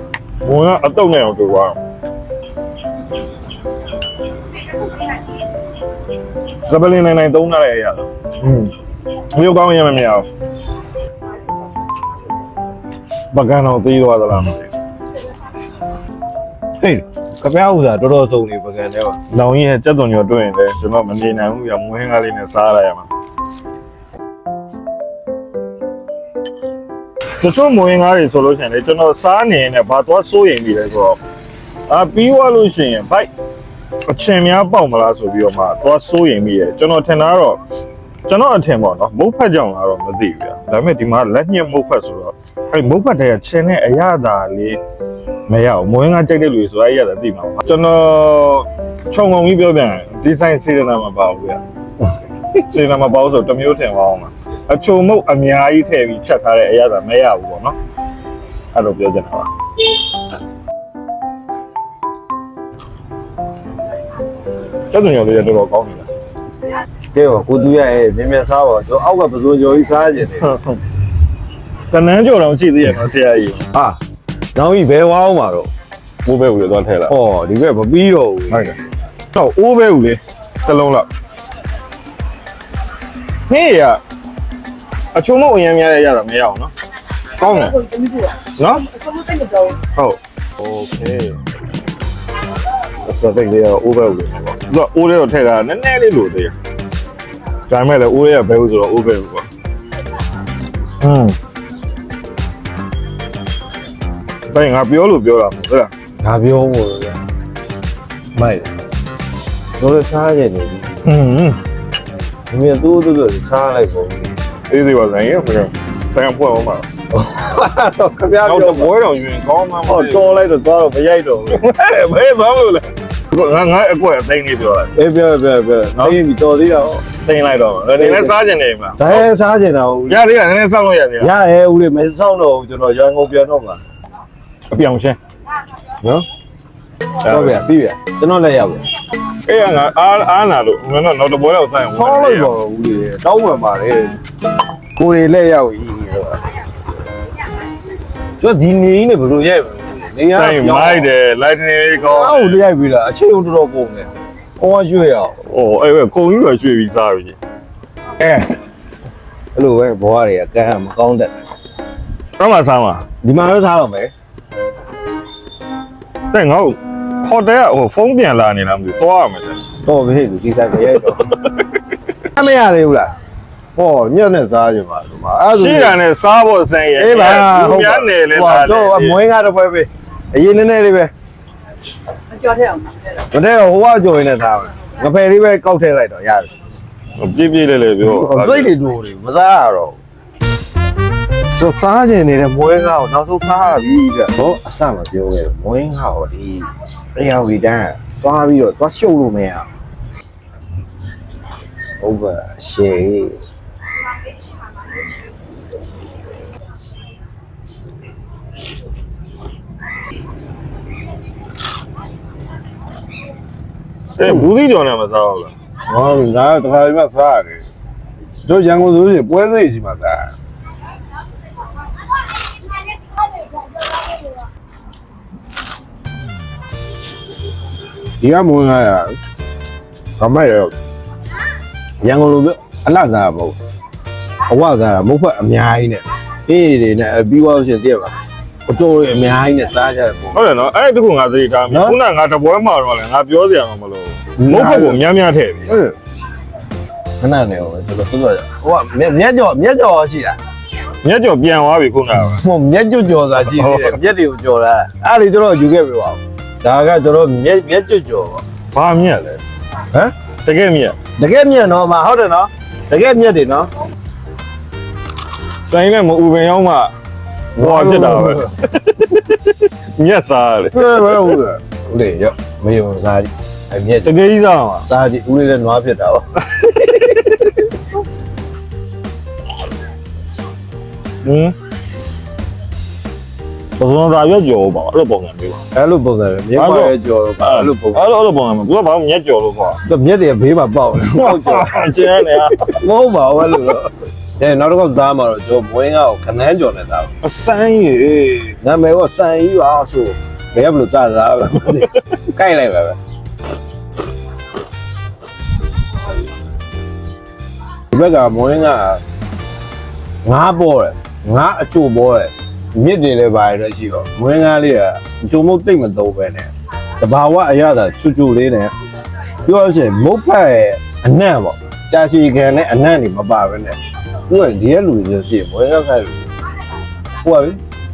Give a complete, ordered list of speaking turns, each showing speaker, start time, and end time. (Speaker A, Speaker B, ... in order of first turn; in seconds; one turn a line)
Speaker A: 0.4-1.8
Speaker A: 6.6-8.7
Speaker A: 9.3-10.3
Speaker A: 13.3-14.7
Speaker B: 16.8-19.2
Speaker A: 19.3-23.1
Speaker A: 27.4-31.2
Speaker A: 31.9-33.3
Speaker A: 34.1-37.6
Speaker A: 38.3-44.8
Speaker A: 45.5-51.6
Speaker A: 52.7-57.8
Speaker A: 58.7-59.5
Speaker A: 64.9-66.1
Speaker B: 67.1-70.5
Speaker A: 70.4-70.8
Speaker A: 71.9-73.7
Speaker B: 74.5-75.7
Speaker A: 76.2-77.2
Speaker B: 77.1-78.8
Speaker A: 79.3-81.1
Speaker A: 83.5-84.0
Speaker A: 85.1-86.7
Speaker A: 87.4-87.8
Speaker C: 87.4-89.8
Speaker A: 88.6-88.9
Speaker A: 90.0-91.3
Speaker A: 93.0-96.5
Speaker A: 97.7-99.5
Speaker A: 101.0-101.4
Speaker A: 104.5-105.9
Speaker B: 106.2-107.2
Speaker B: 108.3-108.7
Speaker B: 109.8-111.0
Speaker A: 111.0-111.6
Speaker B: 112.5-114.3
Speaker A: 114.7-116.9
Speaker B: 117.1-118.9
Speaker A: 118.4-120.4
Speaker B: 119.9-121.6
Speaker A: 121.5-124.9
Speaker B: 125.0-127.1
Speaker A: 127.2-129.3
Speaker B: 128.0-128.3
Speaker B: 129.0-130.2
Speaker A: 130.1-131.3
Speaker B: 131.2-133.8
Speaker A: 134.7-135.2
Speaker A: 137.2-137.6
Speaker B: 137.2-138.8
Speaker A: 139.5-142.5
Speaker B: 141.9-144.2
Speaker B: 145.0-146.4
Speaker B: 148.4-151.1
Speaker A: 150.3-152.6
Speaker B: 152.0-155.4
Speaker A: 155.5-157.4
Speaker B: 158.2-158.5
Speaker B: 159.6-161.3
Speaker A: 162.4-163.1
Speaker B: 163.2-164.1
Speaker A: 166.3-169.6
Speaker B: 169.8-171.2
Speaker B: 172.3-173.1
Speaker B: 173.8-176.0
Speaker A: 175.5-179.2
Speaker B: 177.0-181.1
Speaker C: 182.4-182.8
Speaker B: 183.3-186.5
Speaker A: 187.2-188.7
Speaker B: 188.0-190.0
Speaker B: 191.6-199.7
Speaker B: 202.0-203.4
Speaker A: 214.2-215.5
Speaker B: 215.9-217.6
Speaker B: 218.4-220.3
Speaker B: 228.2-229.2
Speaker B: 230.2-230.7
Speaker B: 232.0-233.6
Speaker B: 234.5-238.1
Speaker B: 238.7-240.5
Speaker A: 240.3-245.8
Speaker B: 241.7-242.0
Speaker B: 244.4-245.0
Speaker B: 245.7-246.0
Speaker B: 247.2-250.4
Speaker A: 251.0-252.4
Speaker B: 252.2-258.4
Speaker A: 253.5-254.0
Speaker A: 258.7-259.4
Speaker A: 260.4-261.0
Speaker B: 261.2-263.7
Speaker A: 265.7-266.9
Speaker A: 267.6-271.4
Speaker B: 267.6-268.5
Speaker B: 270.7-274.1
Speaker A: 274.1-274.9
Speaker B: 274.9-277.4
Speaker A: 281.2-281.6
Speaker A: 283.8-285.6
Speaker B: 285.7-288.1
Speaker A: 286.6-289.8
Speaker B: 289.9-297.1
Speaker A: 291.2-292.8
Speaker A: 297.2-298.6
Speaker B: 298.6-303.0
Speaker B: 307.9-309.0
Speaker B: 310.2-318.7
Speaker B: 319.4-323.8
Speaker B: 324.3-326.3
Speaker B: 327.2-327.6